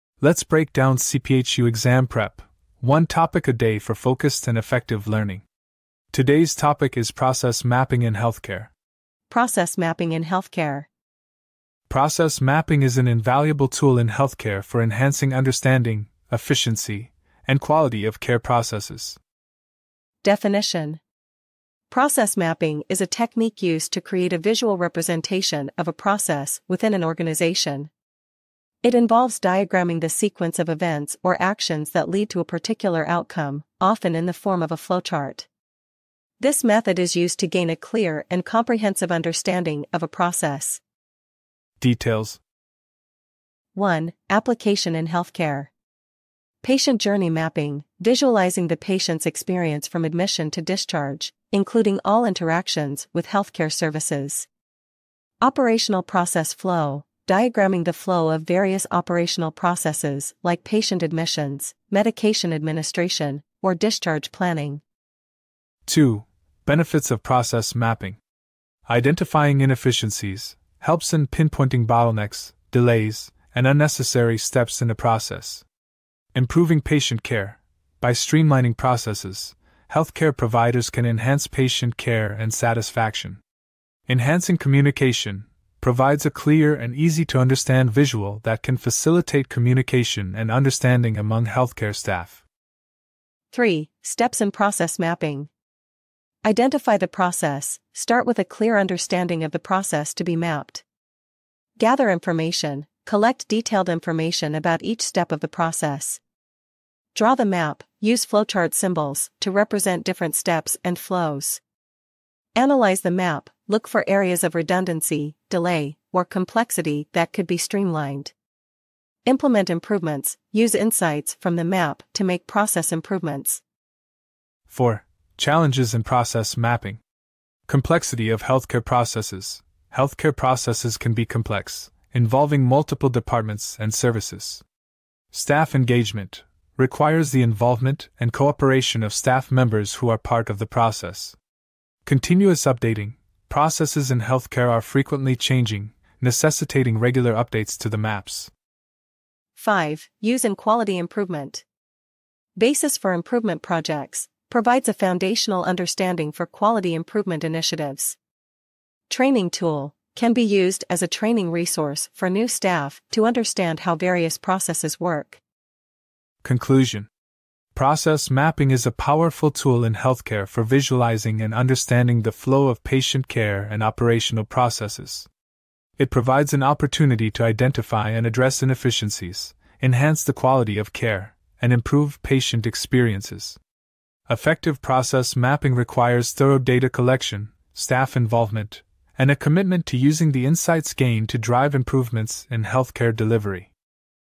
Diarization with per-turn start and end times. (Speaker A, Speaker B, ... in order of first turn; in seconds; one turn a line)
Speaker A: 0.2-5.5
Speaker A: 6.1-8.7
Speaker B: 9.3-10.9
Speaker A: 11.9-19.2
Speaker B: 20.2-21.0
Speaker B: 21.9-27.9
Speaker B: 28.8-35.5
Speaker B: 36.4-40.8
Speaker A: 41.8-42.4
Speaker B: 43.8-45.7
Speaker B: 46.6-54.5
Speaker B: 55.4-64.8
Speaker A: 65.9-68.2
Speaker A: 68.9-75.7
Speaker A: 76.3-83.4
Speaker A: 84.1-92.4
Speaker B: 93.5-95.5
Speaker B: 96.4-100.8
Speaker B: 101.8-106.2
Speaker B: 107.1-111.6
Speaker B: 112.6-118.3
Speaker B: 119.3-123.6
Speaker A: 124.7-127.0
Speaker A: 127.7-134.6
Speaker A: 135.3-141.4
Speaker A: 142.1-148.5
Speaker B: 149.6-151.7
Speaker B: 152.6-158.2
Speaker B: 159.1-165.4
Speaker A: 166.4-167.1
Speaker A: 167.8-175.3
Speaker A: 176.0-183.6
Speaker A: 184.3-193.7